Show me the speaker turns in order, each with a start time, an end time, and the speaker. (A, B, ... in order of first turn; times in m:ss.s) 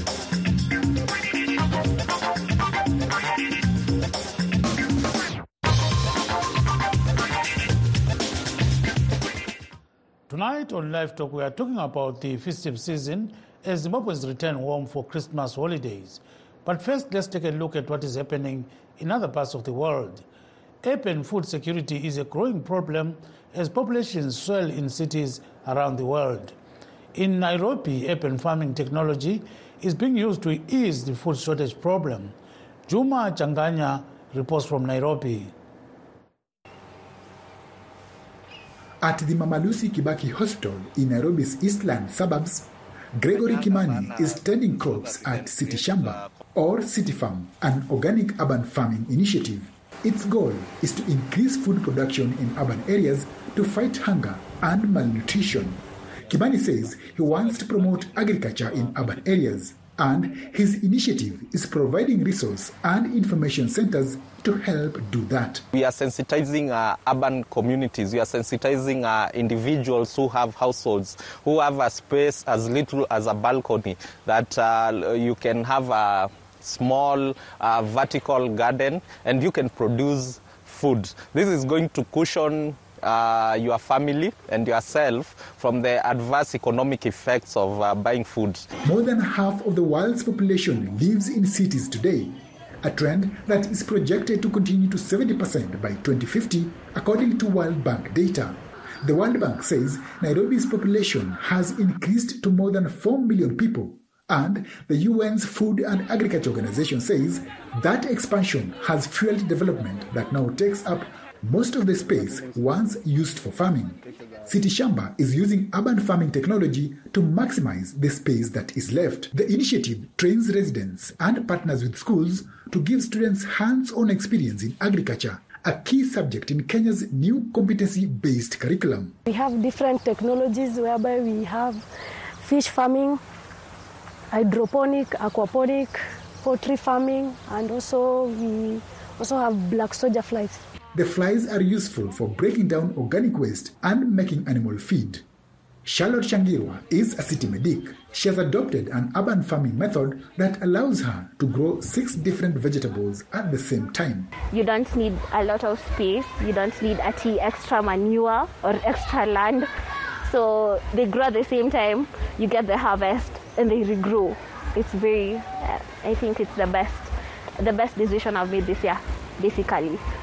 0:10.3-0:20.2 A
0:20.8-0:26.6 A
0:27.1-0:32.3 A
0:32.9-0:35.5 A
0:39.0-1:05.7 B
0:43.8-0:44.2 C
1:05.7-1:28.7 C
1:28.8-2:09.2 B
2:09.3-2:11.8 D
2:12.4-2:13.2 D
2:14.3-2:20.6 D
2:20.9-2:25.2 B
2:25.8-2:34.3 B
2:34.5-2:39.7 E
2:40.2-2:50.0 E